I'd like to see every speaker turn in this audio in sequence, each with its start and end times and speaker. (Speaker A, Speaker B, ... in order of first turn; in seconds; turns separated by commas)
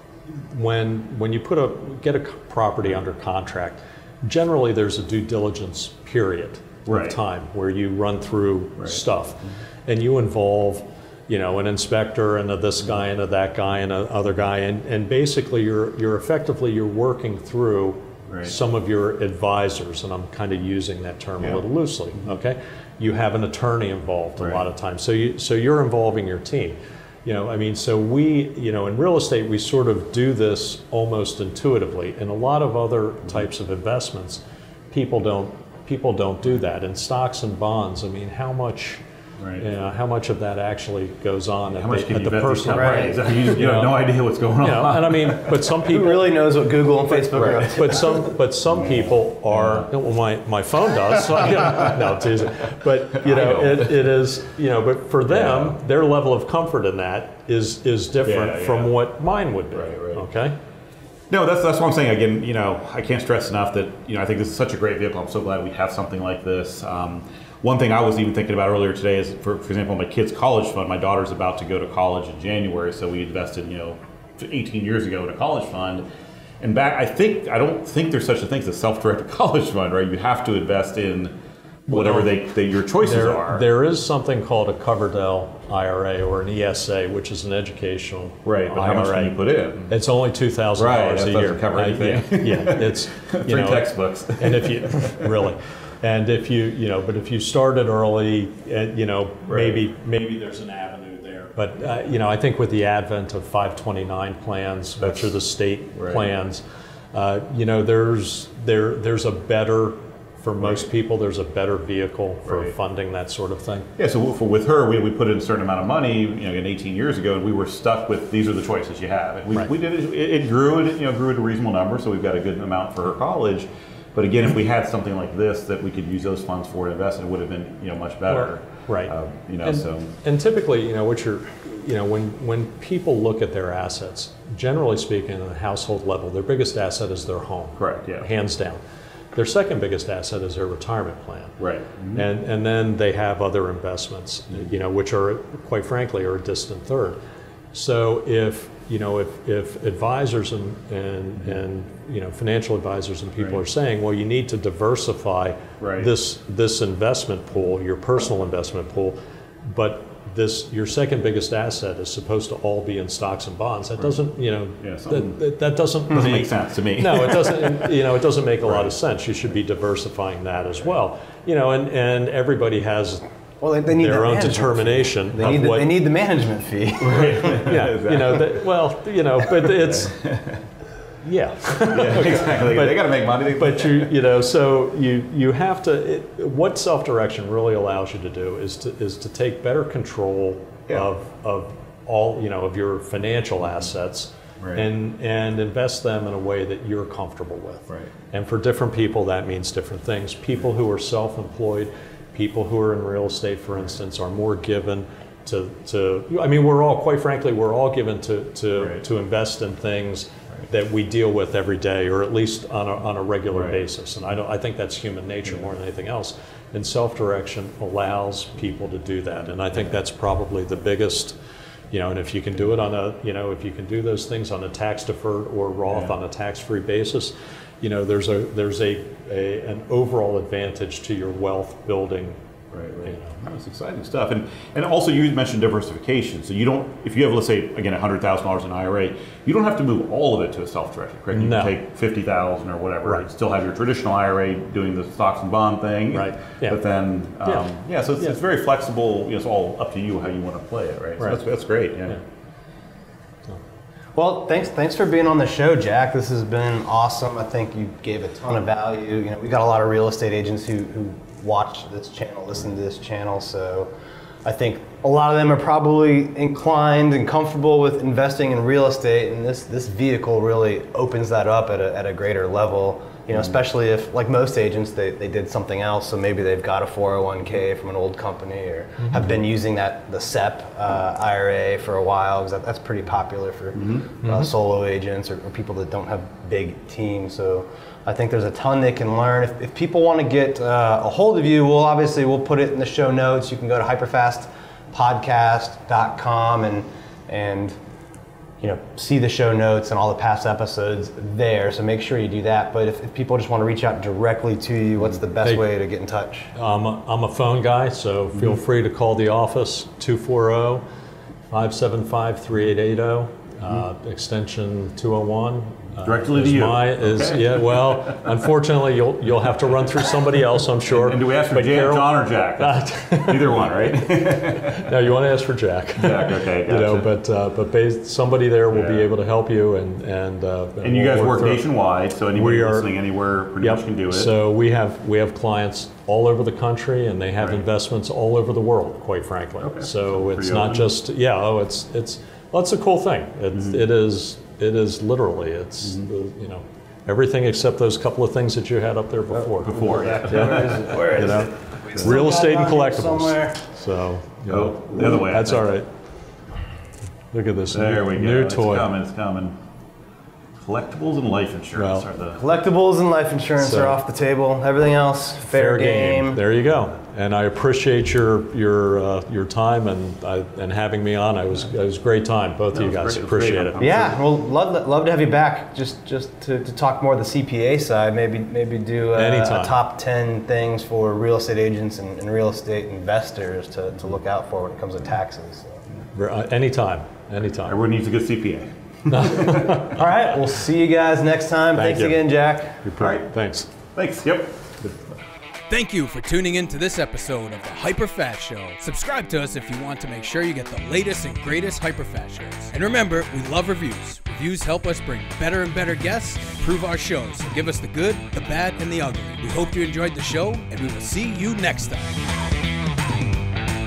Speaker A: 0.3-39.0, Speaker B: 6.9-7.2, Speaker B: 18.3-18.5, Speaker B: 24.4-24.6, Speaker B: 39.4-39.7, Speaker A: 39.6-44.0, Speaker B: 41.8-45.7, Speaker C: 42.7-43.3, Speaker A: 44.6-46.3, Speaker C: 45.8-48.1, Speaker A: 47.1-60.6, Speaker B: 48.7-49.9, Speaker B: 51.5-51.9, Speaker B: 53.1-54.0, Speaker B: 55.3-55.7, Speaker B: 58.2-58.9, Speaker B: 59.7-60.2, Speaker B: 61.3-76.0, Speaker B: 76.6-81.3, Speaker A: 81.9-82.3, Speaker B: 81.9-83.7, Speaker A: 83.0-106.6, Speaker B: 88.4-89.9, Speaker B: 90.8-95.3, Speaker B: 99.5-99.8, Speaker B: 105.0-105.3, Speaker B: 106.0-106.2, Speaker A: 107.1-113.9, Speaker B: 112.5-112.7, Speaker B: 114.0-130.1, Speaker A: 128.3-129.1, Speaker A: 129.6-138.8, Speaker B: 137.8-138.3, Speaker A: 139.3-141.5, Speaker B: 141.6-142.2, Speaker A: 142.1-147.2, Speaker A: 147.7-173.2, Speaker B: 155.8-156.1, Speaker B: 164.8-165.4, Speaker B: 166.1-167.9, Speaker C: 173.6-177.7, Speaker A: 173.9-176.0, Speaker B: 177.0-178.6, Speaker A: 177.6-180.2, Speaker B: 179.6-180.6, Speaker A: 181.2-221.3, Speaker B: 181.8-184.1, Speaker B: 194.6-194.8, Speaker B: 213.5-213.8, Speaker A: 221.9-232.4, Speaker B: 232.7-252.2, Speaker A: 233.0-233.4, Speaker A: 241.3-241.7, Speaker A: 246.1-246.8, Speaker C: 254.1-263.9, Speaker C: 264.4-297.8, Speaker B: 283.8-284.0, Speaker C: 298.6-306.5, Speaker A: 306.5-310.8, Speaker A: 311.5-331.6, Speaker B: 316.0-318.2, Speaker B: 320.9-324.9, Speaker B: 326.0-327.1, Speaker B: 328.7-329.1, Speaker B: 330.8-334.3, Speaker A: 332.3-332.9, Speaker A: 333.6-355.9, Speaker B: 339.6-340.9, Speaker B: 343.5-343.9, Speaker B: 349.6-352.2, Speaker C: 349.6-353.6, Speaker B: 354.5-355.7, Speaker A: 357.3-358.9, Speaker B: 357.7-359.6, Speaker B: 360.6-362.4, Speaker A: 361.8-362.1, Speaker C: 362.4-366.4, Speaker A: 363.6-364.0, Speaker A: 365.4-373.9, Speaker B: 372.7-374.2, Speaker C: 373.8-385.8, Speaker A: 379.1-379.8, Speaker A: 386.1-387.7, Speaker B: 387.6-389.9, Speaker A: 389.1-390.2, Speaker C: 389.9-392.8, Speaker A: 391.8-392.2, Speaker A: 392.8-393.7, Speaker B: 393.0-393.3, Speaker B: 393.9-394.7, Speaker D: 395.7-412.2